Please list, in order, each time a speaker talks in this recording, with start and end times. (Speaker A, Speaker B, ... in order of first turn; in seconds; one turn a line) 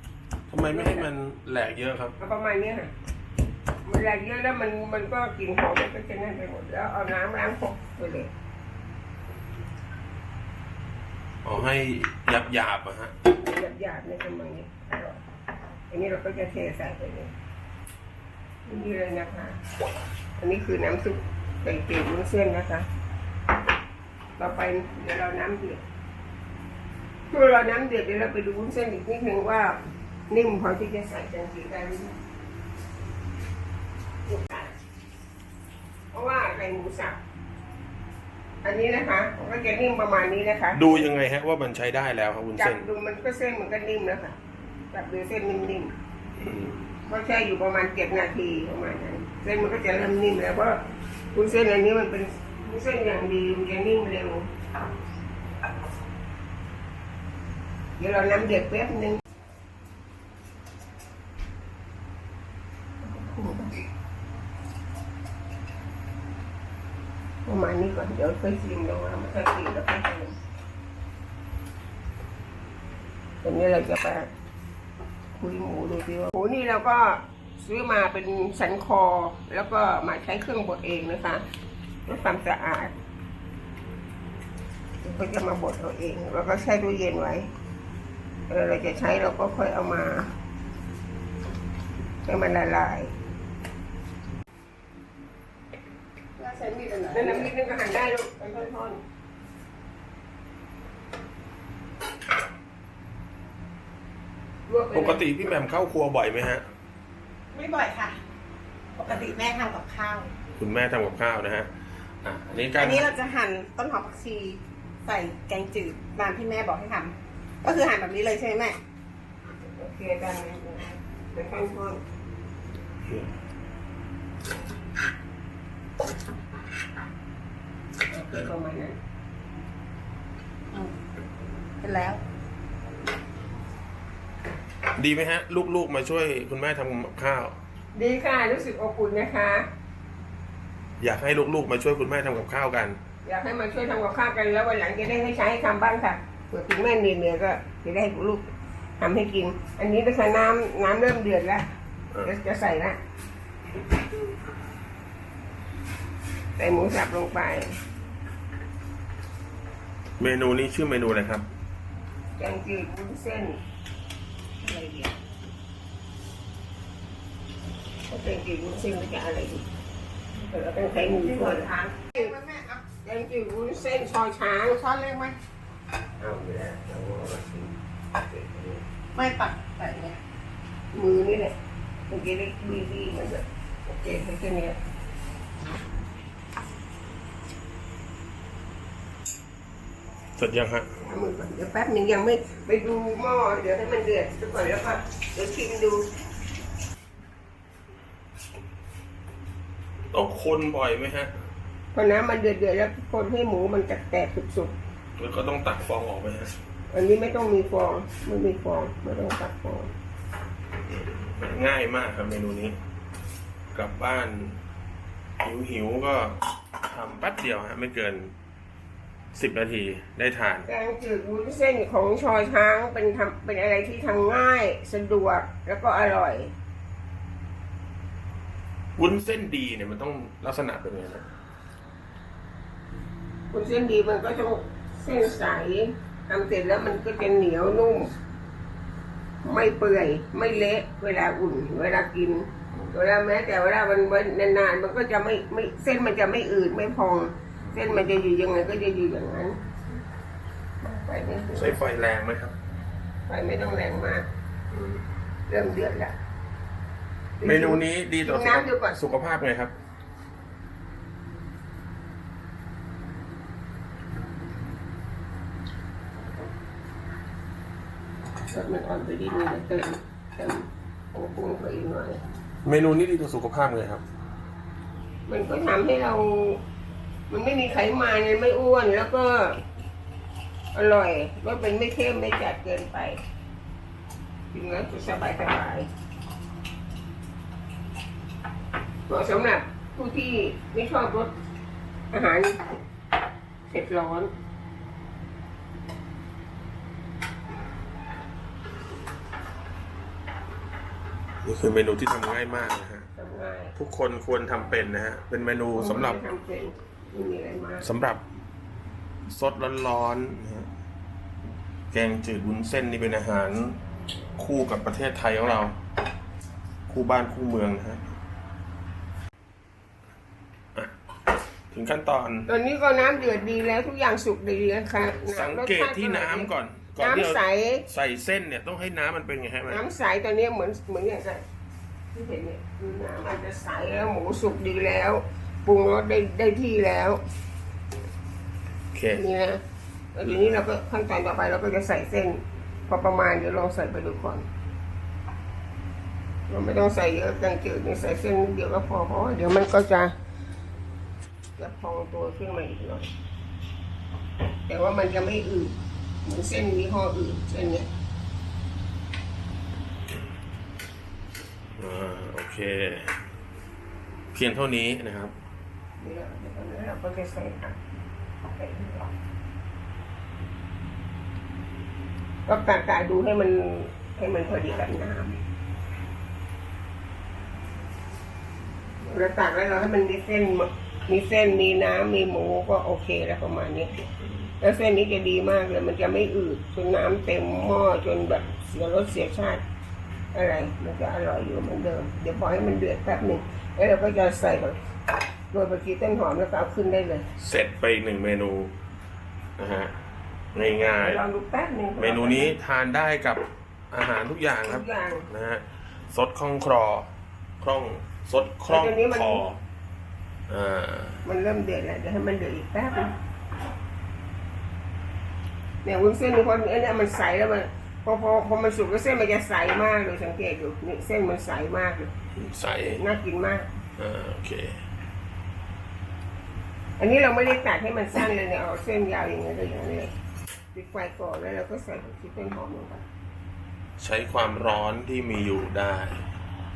Speaker A: 0.5-2.2
Speaker B: 0.6-1.1
Speaker B: 2.2-2.9
Speaker B: 3.9-8.3
Speaker A: 11.4-13.1
Speaker B: 13.4-15.2
Speaker B: 15.9-17.3
Speaker B: 18.7-19.6
Speaker B: 20.4-22.9
Speaker B: 24.4-25.8
Speaker B: 27.3-29.8
Speaker B: 30.3-32.1
Speaker B: 34.3-34.7
Speaker B: 36.1-37.2
Speaker B: 38.6-41.0
Speaker A: 40.8-42.9
Speaker B: 42.6-44.4
Speaker B: 44.9-45.9
Speaker A: 46.4-46.8
Speaker B: 47.1-50.8
Speaker B: 51.3-54.5
Speaker B: 58.0-59.2
Speaker B: 63.0-63.9
Speaker B: 67.5-70.4
Speaker B: 73.4-74.3
Speaker B: 75.3-81.4
Speaker B: 82.1-82.9
Speaker B: 85.0-87.5
Speaker B: 88.5-90.3
Speaker B: 92.2-93.1
Speaker C: 96.4-97.5
Speaker B: 97.1-99.0
Speaker B: 104.7-105.3
Speaker A: 104.9-106.6
Speaker C: 107.5-108.2
Speaker C: 109.0-110.3
Speaker A: 109.0-109.4
Speaker A: 110.6-111.7
Speaker A: 112.2-113.2
Speaker C: 112.8-118.8
Speaker B: 119.8-122.0
Speaker B: 128.1-129.0
Speaker C: 131.8-132.2
Speaker A: 135.0-137.6
Speaker B: 137.9-139.6
Speaker A: 141.0-143.0
Speaker B: 143.2-151.7
Speaker B: 152.2-153.0
Speaker B: 156.6-157.8
Speaker A: 160.2-161.4
Speaker B: 162.4-163.6
Speaker B: 164.7-165.1
Speaker B: 168.1-169.7
Speaker B: 170.3-172.3
Speaker C: 171.1-172.8
Speaker B: 173.0-174.8
Speaker C: 174.7-175.4
Speaker B: 176.2-178.8
Speaker C: 179.2-180.2
Speaker B: 180.9-181.5
Speaker B: 182.1-184.8
Speaker A: 190.4-190.9
Speaker B: 191.1-196.1
Speaker A: 200.1-201.3
Speaker B: 201.9-204.8
Speaker A: 205.2-206.5
Speaker B: 206.9-209.9
Speaker A: 210.9-212.8
Speaker A: 213.7-214.6
Speaker A: 215.4-218.3
Speaker A: 219.3-220.7
Speaker B: 220.7-226.5
Speaker A: 229.0-231.2
Speaker B: 233.5-238.1
Speaker B: 239.4-249.6
Speaker B: 250.8-251.8
Speaker A: 251.6-252.6
Speaker B: 253.3-254.3
Speaker A: 254.7-255.0
Speaker B: 255.5-256.1
Speaker B: 257.4-259.0
Speaker A: 257.4-259.7
Speaker B: 268.5-272.2
Speaker A: 272.6-274.0
Speaker B: 275.3-276.6
Speaker B: 277.3-279.6
Speaker B: 280.7-283.2
Speaker B: 284.5-285.9
Speaker B: 289.1-291.3
Speaker B: 292.1-292.6
Speaker B: 293.7-294.3
Speaker A: 301.4-303.1
Speaker B: 303.2-303.7
Speaker A: 303.8-306.2
Speaker B: 305.7-307.9
Speaker A: 307.8-308.2
Speaker A: 309.3-310.7
Speaker A: 311.9-313.8
Speaker A: 314.4-315.8
Speaker A: 316.9-318.0
Speaker A: 321.7-322.5
Speaker B: 322.5-327.8
Speaker A: 325.3-329.8
Speaker B: 329.7-331.4
Speaker B: 332.1-337.2
Speaker A: 338.9-339.2
Speaker B: 339.2-339.6
Speaker B: 340.1-344.5
Speaker B: 346.5-350.1
Speaker B: 351.6-353.1
Speaker B: 354.7-357.9
Speaker A: 361.8-363.1
Speaker A: 364.3-365.3
Speaker B: 366.0-367.8
Speaker B: 368.6-369.1
Speaker B: 372.5-375.4
Speaker B: 379.0-383.9
Speaker B: 384.6-389.6
Speaker B: 390.3-394.8
Speaker B: 395.5-397.2
Speaker A: 397.4-398.7
Speaker A: 399.6-399.9
Speaker A: 400.5-401.2
Speaker B: 400.6-402.6
Speaker A: 402.0-409.6
Speaker B: 404.6-405.3
Speaker B: 408.7-409.4
Speaker A: 410.5-411.2
Speaker B: 411.2-413.1
Speaker B: 415.8-422.1
Speaker A: 422.4-423.0
Speaker B: 422.9-423.7
Speaker A: 424.0-424.8
Speaker B: 427.0-430.1
Speaker B: 430.7-433.0
Speaker A: 434.0-436.2